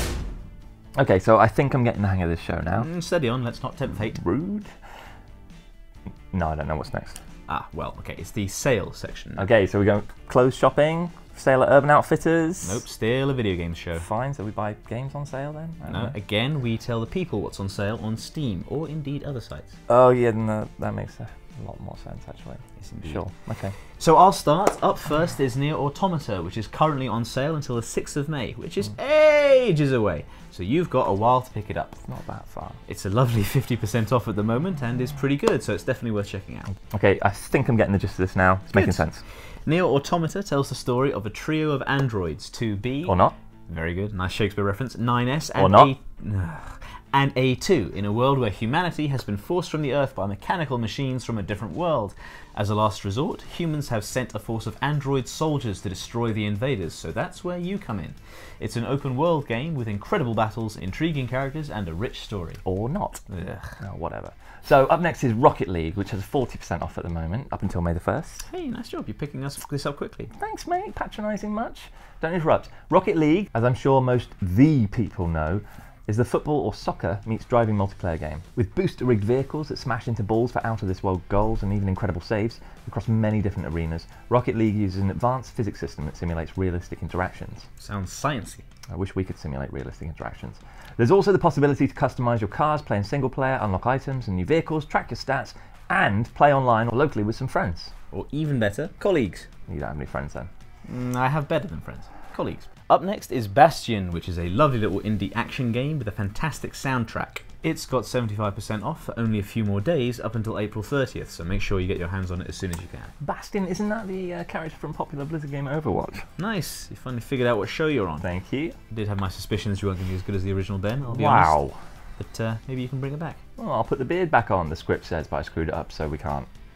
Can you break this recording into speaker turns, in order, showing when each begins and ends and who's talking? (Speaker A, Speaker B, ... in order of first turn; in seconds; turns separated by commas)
Speaker A: 1.0-2.9, Speaker B: 2.7-4.2, Speaker A: 4.1-4.8, Speaker A: 6.3-7.2, Speaker B: 7.5-9.5, Speaker A: 9.4-12.8, Speaker B: 12.6-14.1, Speaker A: 14.0-16.1, Speaker B: 15.9-19.8, Speaker A: 19.9-23.7, Speaker B: 22.8-23.2, Speaker B: 23.8-32.0, Speaker A: 32.0-32.8, Speaker B: 32.9-36.8, Speaker A: 36.9-39.2, Speaker B: 38.7-62.6, Speaker A: 43.0-43.4, Speaker A: 45.5-45.9, Speaker A: 62.6-63.2, Speaker B: 63.3-63.8, Speaker A: 63.8-68.5, Speaker B: 68.5-70.3, Speaker A: 70.3-87.7, Speaker B: 87.8-88.6, Speaker A: 88.9-97.9, Speaker B: 98.1-99.5, Speaker A: 99.7-100.5, Speaker B: 100.9-113.1, Speaker A: 113.2-116.3, Speaker B: 116.4-118.3, Speaker A: 118.2-118.8, Speaker B: 118.9-121.6, Speaker A: 121.1-121.8, Speaker B: 122.2-123.4, Speaker A: 123.6-126.5